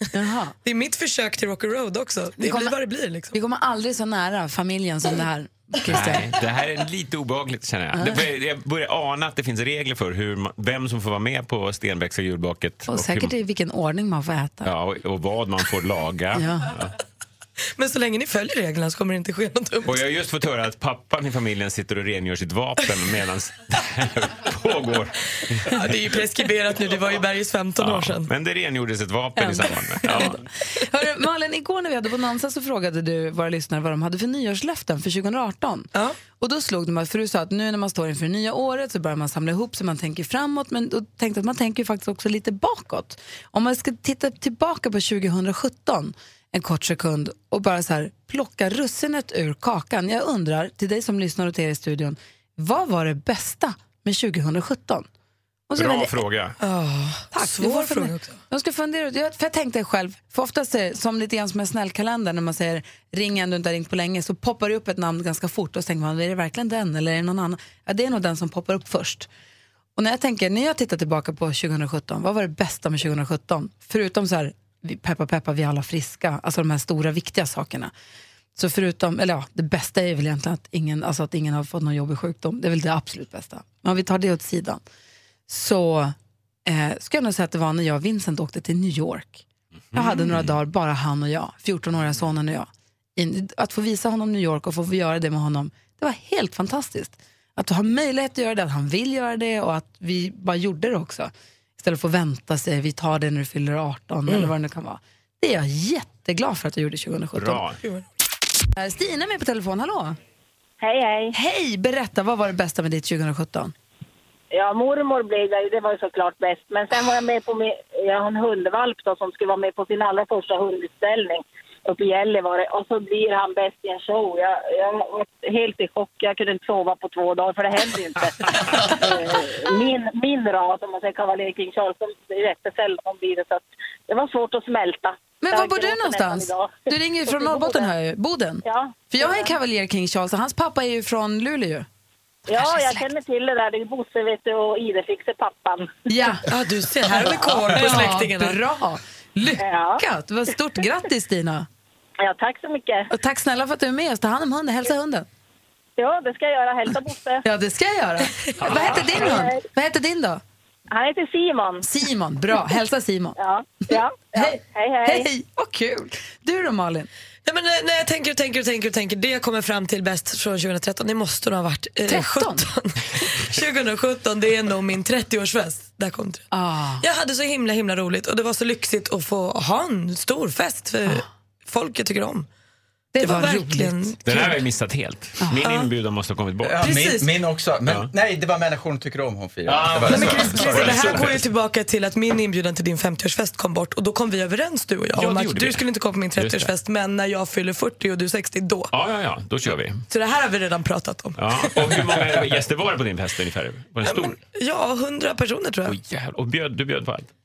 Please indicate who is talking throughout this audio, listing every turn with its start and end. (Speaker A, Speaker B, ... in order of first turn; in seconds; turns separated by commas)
Speaker A: 0.1-0.5, Speaker B: 0.6-3.3, Speaker A: 2.4-2.8, Speaker A: 3.3-6.3, Speaker C: 5.8-13.3, Speaker A: 7.9-8.2, Speaker A: 12.9-14.7, Speaker C: 14.6-16.9, Speaker A: 16.3-16.7, Speaker B: 17.8-20.0, Speaker C: 19.8-26.2, Speaker B: 25.7-28.3, Speaker C: 27.8-30.4, Speaker A: 29.4-55.1, Speaker B: 30.1-30.3, Speaker A: 55.7-56.2, Speaker C: 55.8-56.6, Speaker B: 56.6-58.4, Speaker A: 57.3-69.3, Speaker A: 70.0-77.9, Speaker A: 78.5-84.8, Speaker A: 85.5-86.1, Speaker A: 86.7-107.6, Speaker C: 89.9-90.5, Speaker C: 107.3-107.8, Speaker A: 108.8-110.2, Speaker D: 110.8-111.3, Speaker A: 111.3-113.7, Speaker D: 114.5-137.9, Speaker A: 135.4-141.9, Speaker D: 138.6-139.5, Speaker D: 142.5-145.9, Speaker A: 142.5-143.1, Speaker A: 146.1-146.5, Speaker B: 146.5-148.6, Speaker A: 147.7-151.7, Speaker D: 149.6-150.0, Speaker D: 152.2-153.1, Speaker A: 153.1-155.2, Speaker D: 156.0-157.4, Speaker A: 157.4-160.4, Speaker B: 158.4-159.0, Speaker D: 158.7-159.6, Speaker D: 160.9-161.8, Speaker A: 161.8-163.3, Speaker D: 163.4-165.3, Speaker A: 163.9-167.1, Speaker B: 167.4-176.4, Speaker A: 172.1-172.7, Speaker A: 176.5-177.0, Speaker B: 177.0-182.4, Speaker A: 183.1-184.4, Speaker B: 183.2-184.6, Speaker C: 184.2-186.8, Speaker B: 185.6-185.9, Speaker E: 186.6-191.2, Speaker B: 186.8-187.3, Speaker C: 187.8-188.1, Speaker C: 189.7-191.5, Speaker B: 190.1-198.9, Speaker C: 195.1-196.7, Speaker C: 198.9-200.0, Speaker B: 200.1-202.1, Speaker C: 201.4-204.4, Speaker B: 204.0-206.0, Speaker C: 205.8-207.3